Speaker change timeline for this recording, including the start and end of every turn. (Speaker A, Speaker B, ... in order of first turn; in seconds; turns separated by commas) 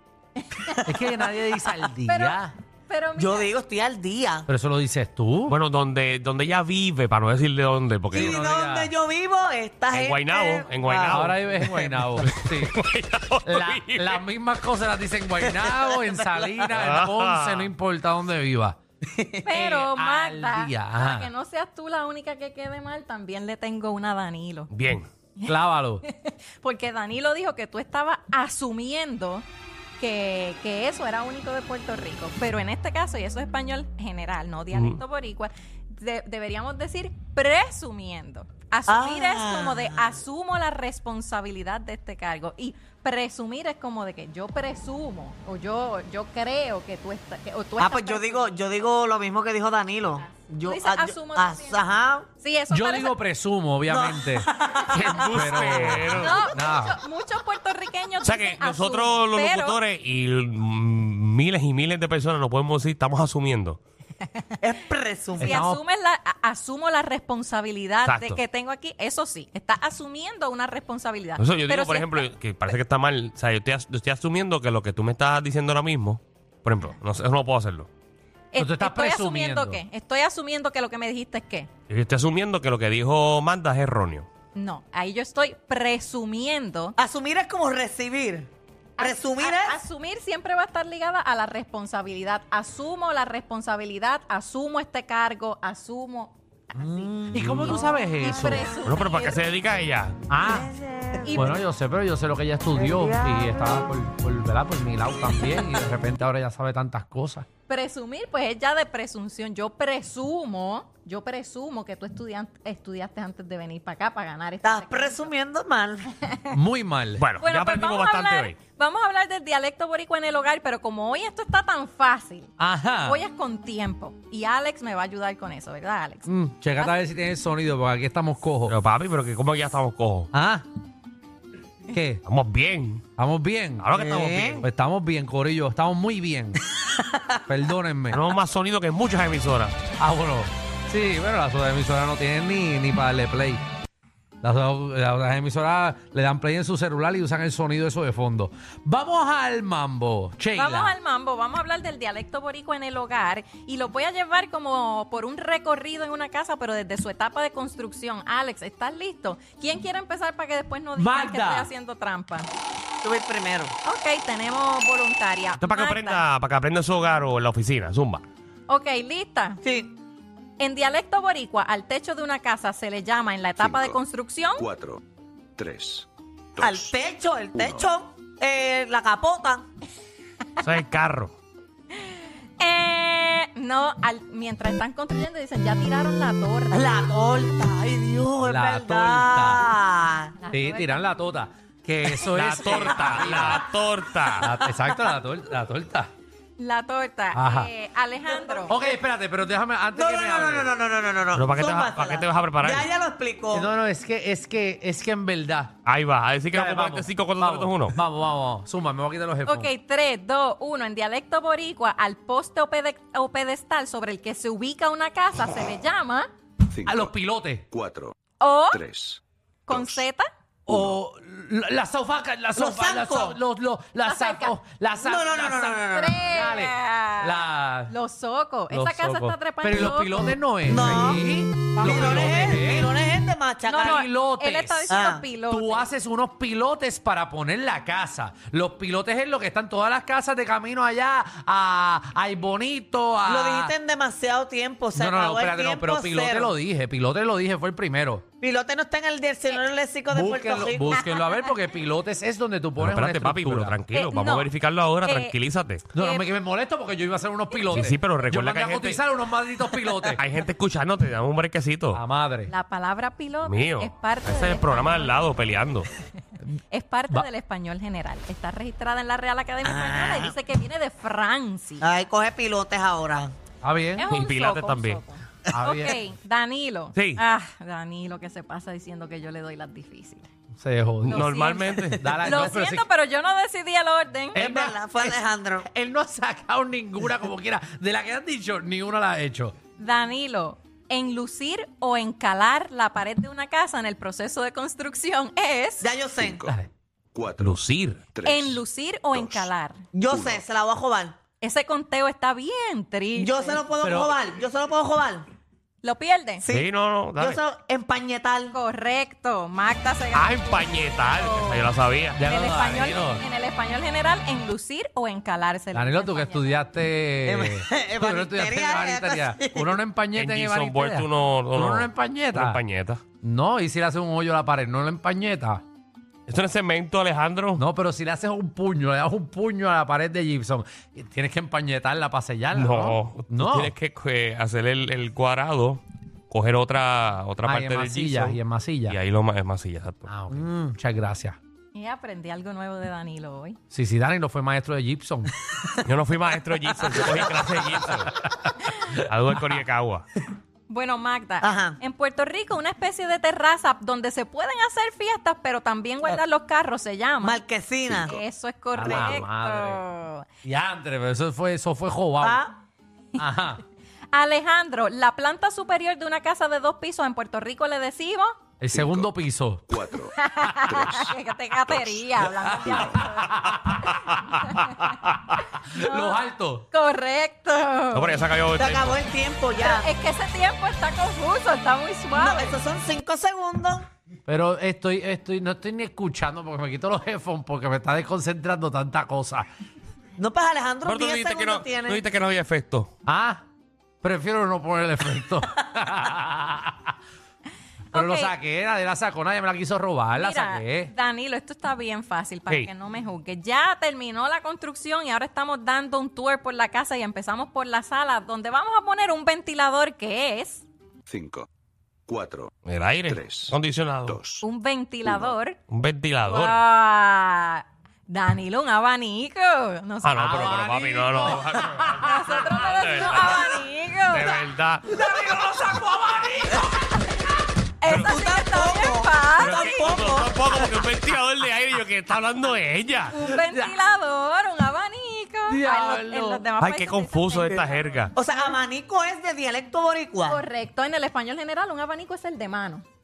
Speaker A: 0.4-0.8, Speaker B: 0.9-2.5, Speaker A: 2.1-3.5, Speaker C: 3.2-4.5, Speaker B: 4.5-5.6, Speaker D: 5.5-8.4, Speaker B: 8.1-8.9, Speaker C: 8.1-12.0, Speaker D: 9.9-11.5, Speaker B: 11.1-12.8, Speaker D: 12.2-14.2, Speaker B: 13.4-18.8, Speaker C: 15.4-16.7, Speaker D: 16.7-17.7, Speaker C: 19.1-19.5, Speaker A: 19.4-24.7, Speaker B: 19.5-21.3, Speaker D: 24.7-25.1, Speaker B: 25.5-26.0, Speaker A: 26.1-29.5, Speaker A: 30.0-48.5, Speaker D: 34.7-35.0, Speaker C: 38.9-39.9, Speaker C: 47.8-52.3, Speaker A: 50.2-53.2, Speaker B: 52.7-57.0, Speaker C: 53.9-55.4, Speaker D: 55.0-56.4, Speaker A: 55.2-59.8, Speaker D: 58.2-63.8, Speaker C: 64.6-65.6, Speaker B: 65.4-65.8, Speaker A: 65.4-72.3, Speaker D: 68.1-68.4, Speaker D: 71.4-77.9, Speaker A: 78.5-81.7, Speaker B: 78.6-79.8, Speaker D: 81.9-84.3, Speaker A: 84.5-87.0, Speaker C: 87.0-89.8, Speaker A: 89.0-96.4, Speaker C: 96.8-97.9, Speaker B: 97.3-98.7, Speaker A: 97.7-99.4, Speaker D: 98.8-100.2, Speaker B: 100.3-100.7, Speaker C: 100.5-101.6, Speaker A: 101.2-101.6, Speaker B: 101.3-107.5, Speaker C: 102.8-103.6, Speaker A: 107.7-115.3, Speaker C: 114.6-116.1, Speaker B: 116.5-117.2, Speaker D: 117.2-118.6, Speaker A: 117.4-127.0, Speaker B: 122.6-123.2, Speaker B: 126.3-128.8, Speaker D: 128.7-130.3, Speaker B: 130.3-130.7, Speaker B: 131.9-132.2, Speaker D: 132.2-133.1, Speaker B: 133.2-133.9, Speaker D: 133.8-134.7, Speaker C: 133.9-134.6, Speaker B: 134.5-136.6, Speaker C: 136.8-137.4, Speaker B: 137.5-138.3, Speaker D: 138.1-139.8, Speaker B: 140.0-143.7, Speaker B: 144.4-150.9, Speaker A: 150.5-162.5, Speaker B: 161.0-161.7, Speaker C: 163.0-163.8, Speaker A: 163.8-166.2, Speaker D: 165.6-168.2, Speaker A: 168.7-169.6, Speaker C: 169.6-169.9, Speaker A: 170.6-174.7, Speaker E: 173.6-174.0, Speaker E: 174.6-175.0, Speaker E: 175.6-177.0, Speaker C: 176.6-179.7, Speaker E: 177.5-177.9, Speaker D: 180.6-181.3, Speaker A: 182.0-187.0, Speaker C: 186.7-190.4, Speaker B: 188.4-189.7, Speaker A: 190.4-191.2, Speaker B: 190.5-193.7, Speaker D: 192.2-194.6, Speaker C: 192.7-193.6, Speaker B: 194.4-196.1, Speaker A: 196.6-198.8, Speaker B: 197.3-197.7, Speaker C: 198.3-199.0, Speaker B: 198.7-200.7, Speaker C: 199.9-203.7, Speaker D: 201.3-202.9, Speaker B: 203.5-205.7, Speaker D: 205.8-208.0, Speaker B: 206.5-209.7, Speaker A: 209.5-216.3, Speaker E: 216.7-217.2, Speaker B: 216.8-217.7, Speaker E: 217.7-218.2, Speaker A: 218.4-218.8, Speaker E: 218.7-220.0, Speaker A: 219.7-220.3, Speaker B: 220.7-227.9, Speaker E: 220.7-221.0, Speaker C: 222.6-223.4, Speaker A: 224.0-224.6, Speaker C: 225.0-226.3, Speaker A: 225.9-230.3, Speaker B: 228.7-233.0, Speaker C: 230.7-234.0, Speaker B: 233.7-243.7, Speaker A: 233.8-235.9, Speaker C: 234.9-235.2, Speaker C: 243.2-246.5, Speaker B: 244.9-248.2, Speaker C: 248.4-251.1, Speaker B: 250.1-253.8, Speaker A: 251.2-251.5, Speaker D: 252.8-255.9, Speaker A: 253.9-255.4, Speaker B: 255.9-260.2, Speaker A: 256.0-256.3, Speaker D: 257.6-259.1, Speaker D: 260.0-262.0, Speaker B: 261.9-262.5, Speaker A: 262.5-265.3, Speaker D: 263.4-265.9, Speaker A: 266.7-271.9, Speaker C: 269.6-270.3, Speaker C: 271.8-273.4, Speaker B: 273.6-274.1, Speaker A: 274.0-280.3, Speaker D: 274.1-275.0, Speaker B: 275.5-276.0, Speaker D: 276.9-277.2, Speaker B: 280.6-282.9, Speaker D: 281.0-282.4, Speaker A: 281.1-284.4, Speaker B: 284.3-289.6, Speaker C: 284.4-285.7, Speaker A: 289.8-295.9, Speaker C: 295.8-296.4, Speaker E: 296.2-296.6, Speaker B: 296.4-296.7, Speaker E: 297.1-299.5, Speaker D: 297.4-298.0, Speaker A: 298.2-299.8, Speaker C: 299.9-301.2, Speaker E: 300.1-300.4, Speaker A: 301.4-303.6, Speaker C: 303.2-305.3, Speaker B: 303.8-304.2, Speaker A: 305.8-306.4, Speaker C: 306.4-308.6, Speaker D: 306.5-307.4, Speaker A: 308.5-311.7, Speaker D: 310.1-312.2, Speaker B: 312.2-313.2, Speaker A: 312.2-316.6, Speaker B: 315.7-322.6, Speaker C: 317.2-319.8, Speaker D: 320.1-323.0, Speaker B: 323.2-325.6, Speaker D: 326.3-327.6, Speaker B: 327.6-333.7, Speaker D: 332.6-340.1, Speaker B: 337.4-339.0, Speaker B: 340.1-341.4, Speaker A: 341.7-343.6, Speaker B: 343.7-345.3, Speaker D: 345.8-348.2, Speaker D: 348.9-350.1, Speaker A: 350.7-357.4, Speaker C: 351.4-351.8, Speaker C: 357.2-358.2, Speaker A: 358.1-360.3, Speaker B: 358.7-359.8, Speaker C: 358.8-359.2, Speaker B: 360.4-362.4, Speaker C: 362.2-362.5, Speaker B: 363.2-363.6, Speaker A: 364.1-368.4, Speaker B: 368.6-369.7, Speaker E: 368.7-373.0, Speaker A: 370.1-373.4, Speaker B: 372.3-373.9, Speaker D: 373.6-375.4, Speaker A: 374.3-374.9, Speaker B: 375.6-376.6, Speaker A: 375.7-378.2, Speaker D: 377.9-379.0, Speaker C: 378.6-379.9, Speaker A: 379.6-382.6, Speaker C: 382.1-383.9, Speaker B: 384.3-389.5, Speaker C: 390.2-392.0, Speaker D: 390.8-392.9, Speaker B: 393.1-393.4, Speaker B: 394.0-397.0, Speaker A: 397.9-398.3, Speaker B: 397.9-400.9, Speaker A: 400.2-410.6, Speaker E: 411.1-411.5, Speaker E: 412.1-412.5, Speaker D: 412.7-414.2, Speaker E: 413.1-414.5, Speaker A: 414.4-415.6, Speaker E: 415.1-415.3, Speaker D: 415.7-416.6, Speaker A: 416.2-420.2, Speaker D: 420.0-423.5, Speaker B: 420.2-423.5, Speaker A: 422.0-424.4, Speaker D: 424.1-424.9, Speaker B: 424.9-427.4, Speaker A: 427.8-430.1, Speaker D: 427.9-428.1, Speaker C: 427.9-430.9, Speaker D: 429.4-433.1, Speaker A: 433.1-438.6, Speaker B: 433.2-433.7, Speaker B: 435.5-436.5, Speaker D: 436.6-438.1, Speaker C: 438.1-440.4, Speaker A: 440.3-442.8